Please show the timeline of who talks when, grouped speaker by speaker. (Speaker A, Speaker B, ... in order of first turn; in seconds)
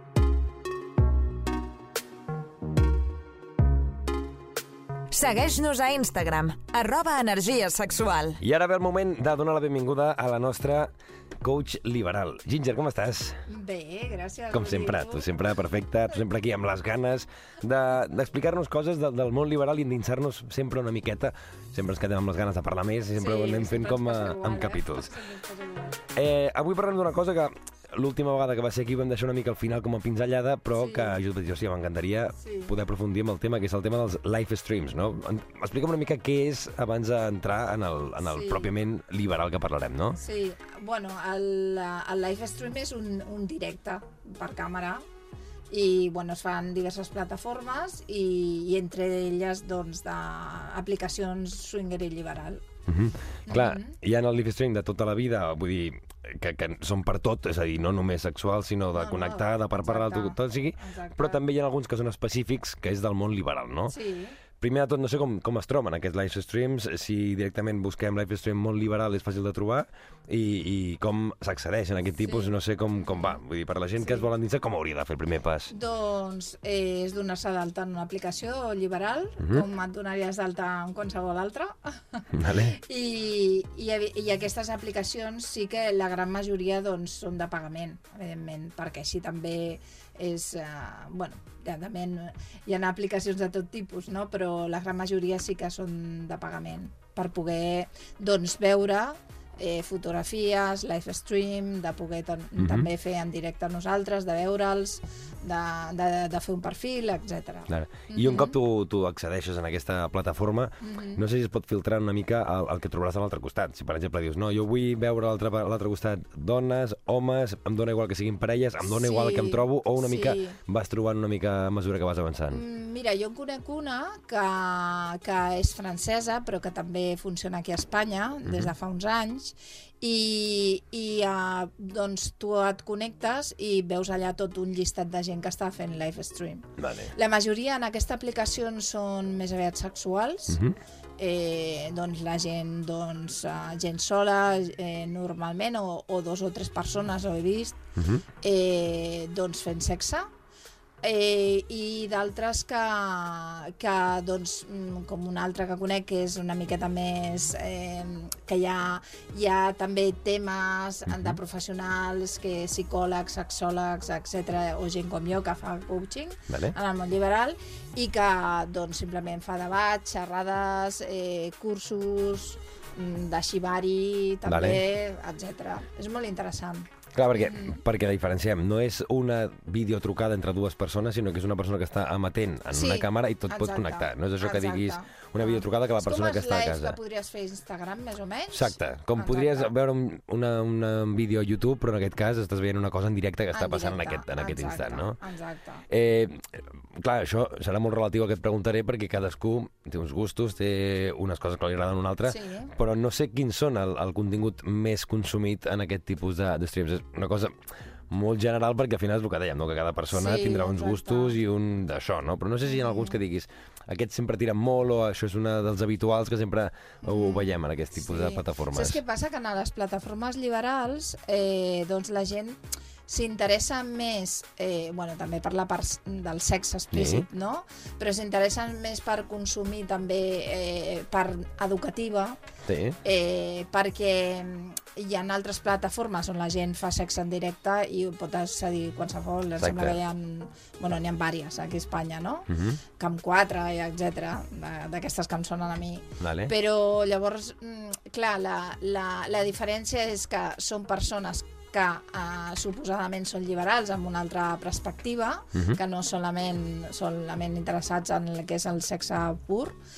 Speaker A: 5.1-8.4
Speaker B: 8.4-13.4, 14.5-25.1, 26.1-40.2, 52.9-63.9, 64.5-75.7, 82.3-82.8, 102.6-102.9, 107.7-122.6, 128.5-128.7, 136.8-137.1, 148.0-148.2, 161.1-161.4, 166.5-166.7, 174.4-174.8, 177.1-187.0, 188.5-195.2, 195.9-207.6, 208.1-219.0, 226.9-227.2, 232.7-233.0, 239.6-240.0, 242.5-242.8, 246.2-246.5
Speaker C: 13.5-15.3, 23.2-26.0, 30.7-31.2, 32.4-32.7, 38.2-38.7, 40.2-45.0, 45.7-52.6, 53.5-54.0, 59.0-61.4, 63.9-64.4, 72.2-72.5, 73.0-73.4, 74.0-74.3, 75.7-108.5, 110.8-111.2, 118.8-120.6, 122.5-140.6, 141.2-147.8, 148.4-150.3, 151.0-177.8, 182.7-189.7, 193.5-195.8, 202.3-202.7, 210.1-211.4, 212.6-213.2, 217.0-232.4, 233.0-259.8